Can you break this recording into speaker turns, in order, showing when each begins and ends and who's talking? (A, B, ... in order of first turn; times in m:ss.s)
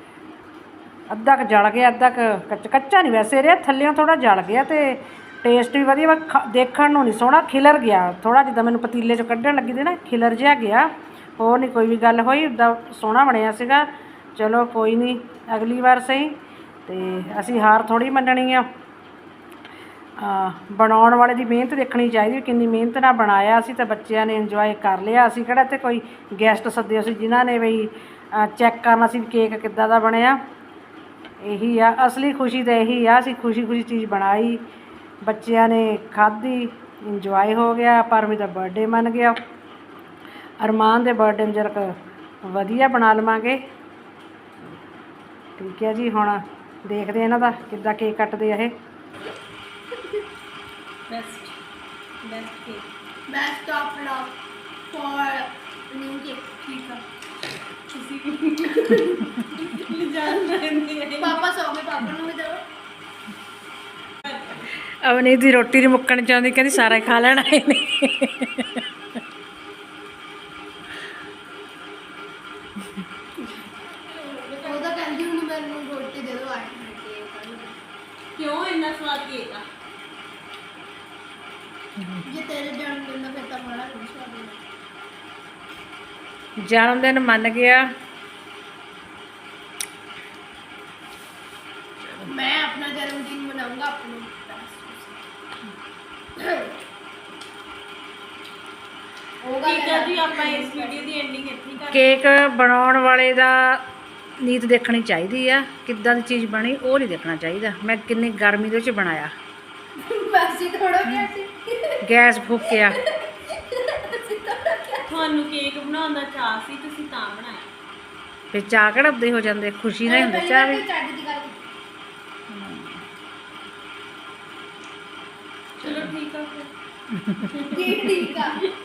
0:01.1-0:16.3 A
0:16.9-0:18.7 A
0:20.2-0:30.4 A
0:31.4-0:34.6 A
0:35.2-0:39.4 A
0:40.6-0:43.6 A
0:45.6-0:48.7 A
0:51.1-0:51.6 B
0:52.2-0:52.8 B
0:53.3-0:54.3 C
0:54.9-0:56.5 C
0:56.6-0:57.0 B
0:57.9-1:01.4 B
1:01.2-1:02.6 C
1:04.2-1:04.6 B
1:05.0-1:08.8 A
1:13.9-1:15.1 B
1:14.6-1:17.8 C
1:18.3-1:19.6 B
1:22.0-1:22.2 A
1:22.3-1:24.6 C
1:26.6-1:27.8 A
1:32.0-1:32.3 A
1:32.2-1:35.2 C
1:36.4-1:36.7 C
1:39.4-1:41.0 C
1:39.6-1:42.1 B
1:41.9-1:43.8 A
1:44.4-1:49.3 A
1:50.0-1:52.0 C
1:52.0-1:53.0 A
1:52.6-1:55.2 C
1:55.0-1:57.6 B
1:58.5-2:00.8 A
2:00.0-2:01.7 C
2:02.5-2:03.0 A
2:05.8-2:06.7 B
2:07.4-2:08.7 B
2:07.7-2:08.6 C